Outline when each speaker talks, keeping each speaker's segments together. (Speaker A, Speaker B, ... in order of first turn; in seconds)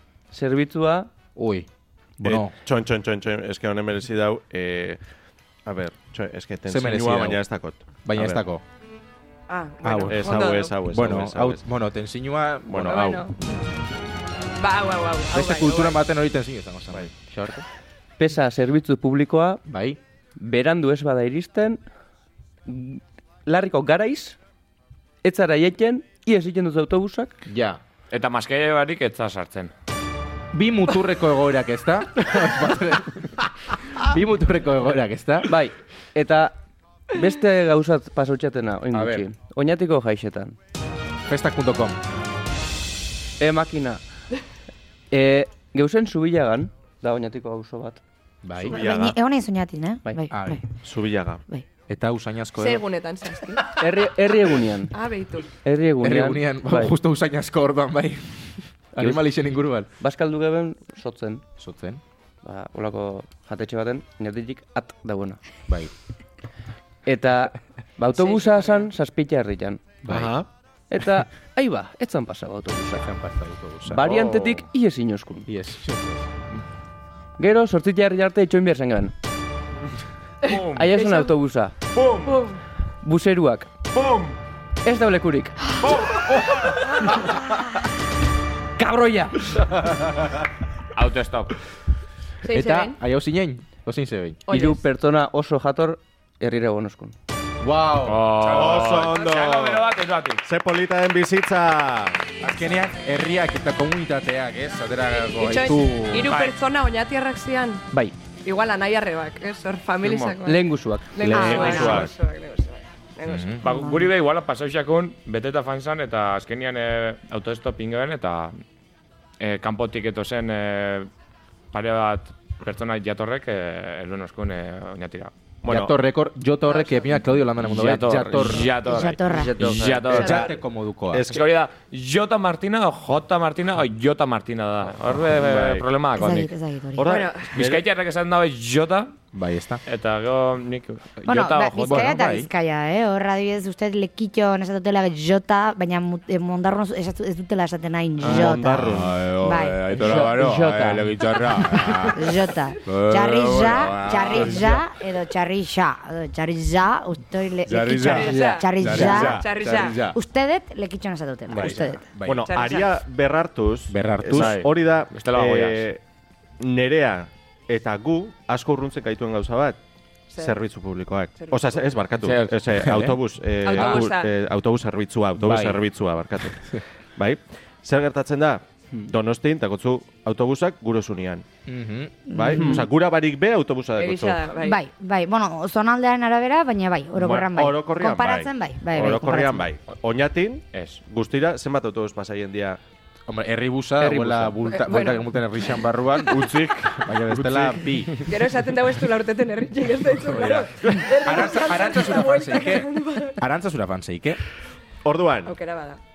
Speaker A: 0.3-1.1, 18.2-19.6, 20.4-21.8, 22.7-24.4, 25.2-27.4, 35.5-36.6, 37.1-40.6, 43.4-44.0, 45.1-48.0, 53.7-54.9, 55.6-56.9, 60.0-61.5, 62.4-65.4, 67.0-70.0, 70.9-73.1, 73.9-75.5, 77.4-79.1, 80.7-81.8, 83.0-83.7, 84.8-85.8, 88.8-89.4, 94.5-97.1, 110.4-111.3, 129.2-130.2, 149.9-151.2, 158.3-158.5, 182.6-182.8
Speaker B: 1.4-2.5, 6.7-7.4, 8.0-8.6, 9.8-13.2, 15.3-17.6, 19.6-20.0, 27.5-27.8, 30.5-35.5, 38.9-39.3, 41.3-42.0, 48.4-48.8, 50.3-50.6, 51.9-52.8, 56.0-59.9, 61.6-62.0, 70.0-70.4, 73.0-74.1, 75.5-76.2, 92.5-94.5, 97.6-98.8, 102.4-106.4, 111.3-111.5, 113.2-113.6, 125.7-128.8, 129.6-131.3, 139.3-139.8, 141.8-142.5, 148.2-152.3, 152.9-154.8, 157.7-160.2, 161.5-162.5, 163.9-164.6, 172.7-174.0, 175.4-175.8, 181.7-182.2, 193.3-198.2, 200.2-204.4
Speaker C: 2.2-5.0, 5.7-8.4, 10.1-11.6, 12.7-13.2, 48.7-49.2, 50.7-51.4, 70.1-70.5, 82.0-82.4, 83.9-84.3, 98.4-99.9, 100.4-102.2, 111.3-112.1, 125.6-125.9, 131.1-131.4, 135.3-135.8, 137.0-137.8, 148.2-149.2, 159.1-159.4, 161.5-166.0, 166.6-169.8, 170.4-181.5, 182.3-184.5, 187.2-192.8, 196.2-197.1, 205.0-205.6
Speaker D: 9.5-10.8, 12.8-13.6, 14.6-16.0, 52.6-53.8, 54.9-55.5, 68.1-68.9, 80.5-81.3, 82.3-82.6, 92.4-93.0, 94.5-94.8, 105.3-107.9, 108.4-113.5, 126.7-127.1, 137.1-137.6, 158.0-160.1, 162.4-162.9, 170.3-170.6, 171.4-171.9, 173.6-174.3, 184.0-184.8, 194.7-195.2, 198.3-203.4, 205.5-206.0
Speaker E: 28.1-29.7, 74.0-74.6, 80.4-80.9, 90.9-91.5, 98.0-100.4, 106.3-106.5, 113.6-118.6, 119.4-121.1, 121.7-125.3, 127.6-130.5, 131.3-136.5, 137.5-139.2, 139.9-142.2, 164.3-165.9, 172.2-172.6, 190.7-191.0, 197.4-198.2
Speaker F: 48.7-50.7, 111.3-112.1, 113.6-114.0, 128.8-129.6, 136.2-137.2, 141.2-149.8, 152.1-159.4, 160.1-162.0, 182.3-182.8, 184.6-189.7